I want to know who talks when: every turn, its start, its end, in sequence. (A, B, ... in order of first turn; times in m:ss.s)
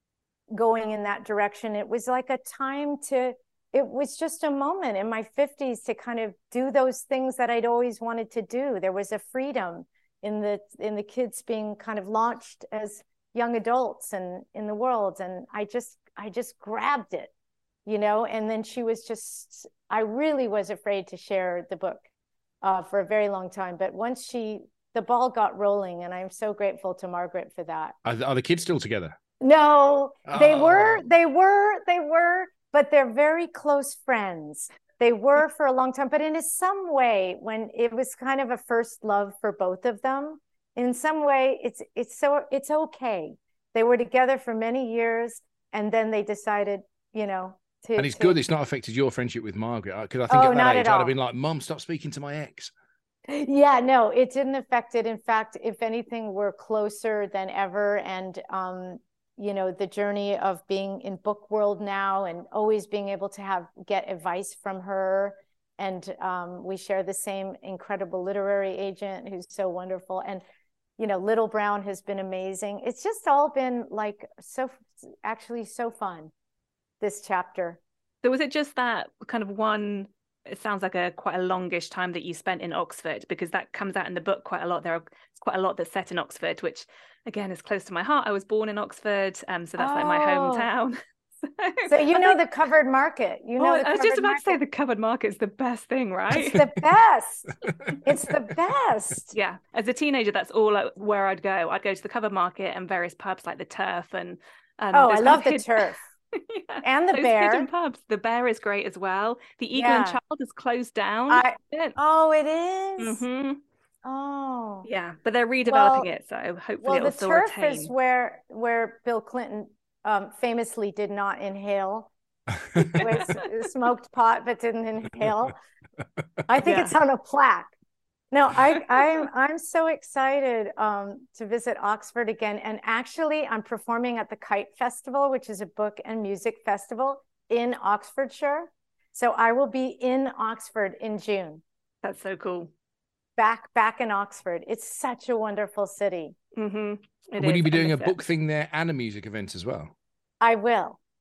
0:00.5-0:17.3 A
0:17.9-0:22.0 A
0:22.6-0:28.0 A
0:28.0-0:29.2 B
0:29.4-0:48.4 A
0:30.3-0:31.0 B
0:48.0-0:52.7 B
0:50.3-0:51.1 A
0:53.3-1:10.4 A
1:11.0-1:16.3 A
1:17.0-1:17.8 A
1:18.2-1:32.4 C
1:29.8-1:30.7 A
1:31.9-1:34.6 A
1:33.6-1:36.7 C
1:36.4-1:39.4 A
1:39.3-1:52.0 C
1:44.9-1:46.0 A
1:46.8-1:47.7 A
1:49.7-1:50.2 A
1:51.3-1:53.2 A
1:53.0-1:53.6 C
1:54.0-1:54.9 A
1:54.8-1:57.9 C
1:55.7-1:56.1 A
1:56.8-2:02.1 A
2:02.9-2:05.6 A
2:02.9-2:03.4 C
2:06.5-2:07.7 A
2:06.6-2:06.9 C
2:08.3-2:21.6 A
2:22.0-2:22.7 C
2:23.4-2:26.4 A
2:26.6-2:28.2 C
2:27.4-2:29.9 B
2:30.4-2:31.0 A